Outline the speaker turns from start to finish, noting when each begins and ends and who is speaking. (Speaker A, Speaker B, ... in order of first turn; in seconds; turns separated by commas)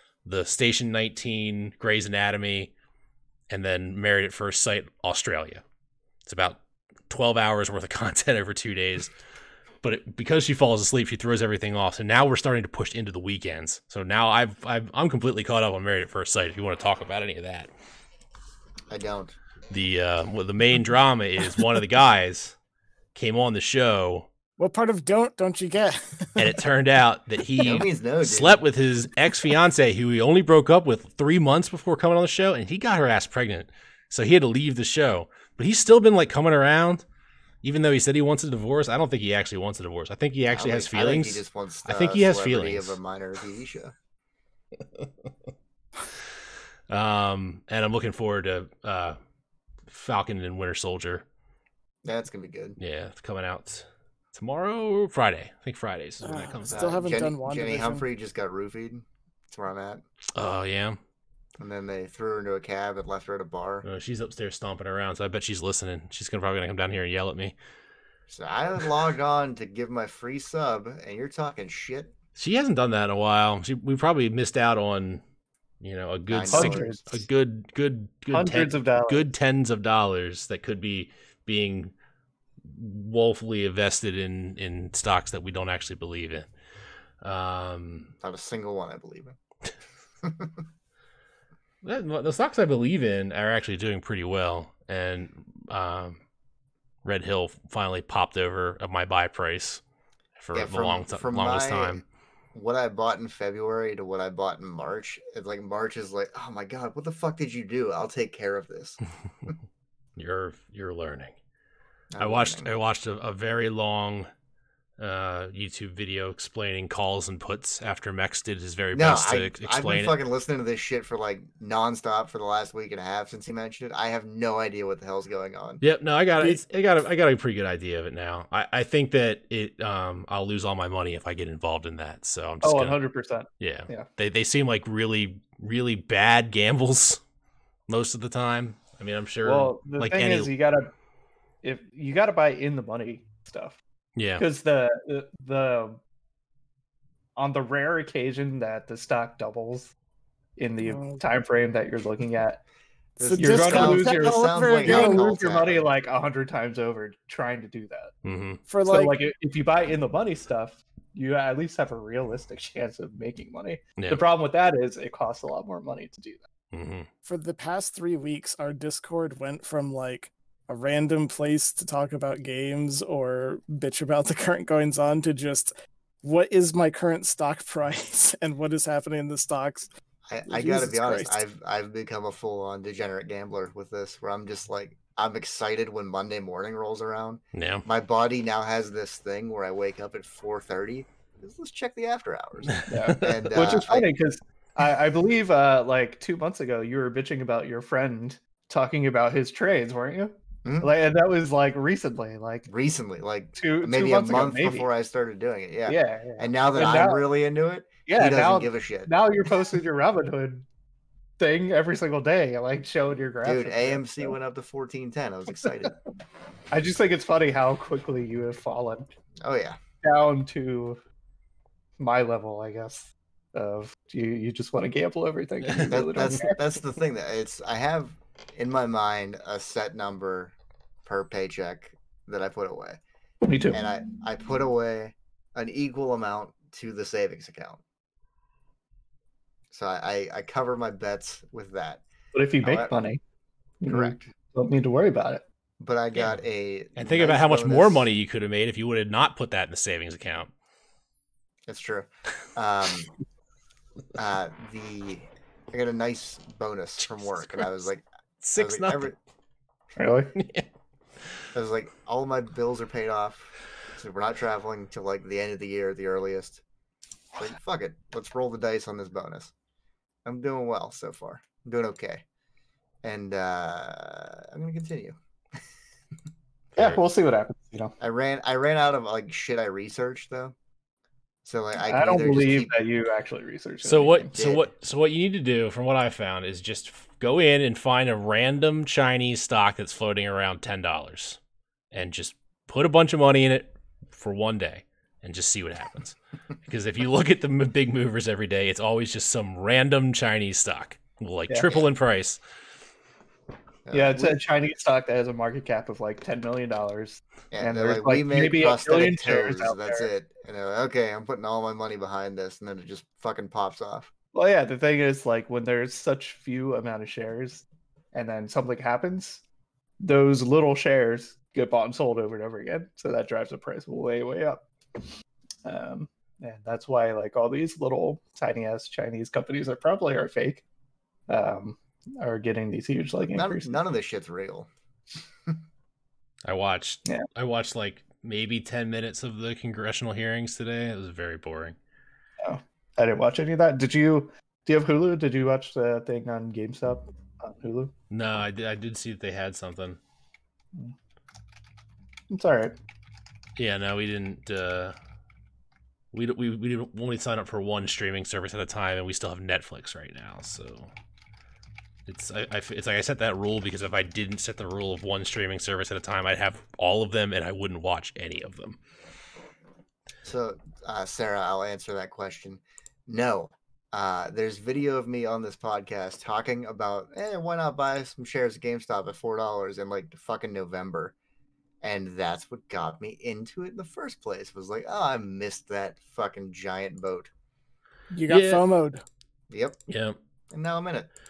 Speaker A: 0.2-2.7, Speaker A: 3.5-5.6, Speaker A: 6.3-9.1, Speaker A: 9.8-17.7, Speaker B: 18.9-19.4, Speaker A: 19.7-22.6, Speaker A: 23.1-24.3, Speaker C: 24.6-26.6, Speaker A: 26.4-37.0, Speaker B: 27.6-28.6, Speaker A: 37.6-43.0, Speaker B: 40.5-43.9, Speaker A: 46.9-49.2, Speaker A: 49.9-51.2, Speaker B: 52.0-52.8, Speaker A: 52.8-57.0, Speaker C: 56.2-58.0, Speaker B: 56.7-60.0, Speaker A: 60.4-61.0, Speaker B: 61.6-63.9, Speaker A: 63.8-67.5, Speaker B: 68.3-72.1, Speaker A: 72.4-75.2, Speaker A: 75.8-81.9, Speaker B: 76.3-77.0, Speaker D: 76.5-77.1, Speaker D: 78.3-79.3, Speaker A: 82.7-86.5, Speaker A: 87.2-88.1, Speaker B: 88.2-89.4, Speaker B: 90.2-90.5, Speaker A: 91.8-96.2, Speaker A: 97.0-99.8, Speaker A: 100.4-102.0, Speaker B: 100.5-102.0, Speaker B: 102.5-109.0, Speaker A: 110.2-111.3, Speaker B: 112.1-112.7, Speaker A: 112.2-114.3, Speaker A: 115.0-120.1, Speaker B: 118.9-125.8, Speaker A: 125.8-133.0, Speaker D: 132.6-134.1, Speaker A: 133.6-137.2, Speaker A: 137.9-140.5, Speaker D: 139.4-140.9, Speaker D: 141.6-143.8, Speaker A: 144.2-144.4, Speaker D: 144.4-146.0, Speaker D: 147.4-149.9, Speaker D: 150.6-152.6, Speaker C: 150.8-151.2, Speaker B: 153.2-155.9, Speaker C: 153.2-155.3, Speaker D: 153.4-158.1, Speaker A: 158.2-158.6, Speaker C: 158.7-159.2, Speaker D: 158.9-166.4, Speaker A: 164.0-164.2, Speaker A: 166.7-167.1, Speaker C: 167.2-179.9, Speaker B: 180.3-194.1, Speaker C: 180.5-181.4, Speaker A: 187.5-187.8, Speaker A: 192.7-193.3, Speaker D: 192.9-202.7, Speaker B: 200.6-200.9, Speaker B: 202.7-209.1, Speaker D: 203.6-204.9, Speaker D: 205.9-207.3, Speaker D: 208.1-210.7, Speaker D: 211.4-214.4, Speaker B: 213.4-216.0, Speaker D: 216.7-219.1, Speaker B: 219.4-219.8, Speaker D: 220.0-221.0, Speaker D: 222.0-226.6, Speaker B: 225.9-230.5, Speaker B: 231.1-233.0, Speaker D: 233.4-233.8, Speaker B: 233.7-237.8, Speaker B: 239.7-242.0, Speaker D: 242.3-243.2, Speaker B: 242.6-242.9, Speaker D: 243.8-245.4, Speaker B: 243.9-244.3, Speaker B: 245.8-248.1, Speaker A: 247.0-250.5, Speaker B: 251.7-253.1, Speaker B: 254.2-258.0, Speaker A: 257.0-257.8, Speaker A: 258.4-259.1, Speaker B: 258.6-259.2, Speaker D: 260.0-260.3, Speaker A: 260.4-260.7, Speaker B: 261.5-266.6, Speaker B: 267.4-269.5, Speaker B: 270.2-272.2, Speaker B: 273.0-275.2, Speaker D: 276.8-277.9, Speaker B: 278.0-280.6, Speaker B: 281.4-282.7, Speaker D: 281.8-284.3, Speaker A: 283.8-291.4, Speaker B: 284.3-284.7, Speaker A: 291.9-302.4, Speaker D: 301.5-301.8, Speaker B: 303.9-304.4, Speaker D: 303.9-310.1, Speaker B: 307.5-314.1, Speaker D: 314.3-319.4, Speaker D: 320.0-324.7, Speaker D: 325.6-330.6, Speaker D: 331.3-333.8, Speaker B: 333.3-334.7, Speaker A: 336.4-341.8, Speaker D: 342.4-347.9, Speaker A: 348.1-350.0, Speaker D: 352.3-352.8, Speaker A: 353.6-354.9, Speaker A: 356.1-360.9, Speaker A: 362.1-368.8, Speaker B: 370.2-381.1, Speaker B: 381.8-387.3, Speaker C: 388.1-389.0, Speaker A: 388.3-388.6, Speaker B: 389.5-389.8, Speaker A: 389.9-390.2, Speaker B: 390.5-391.1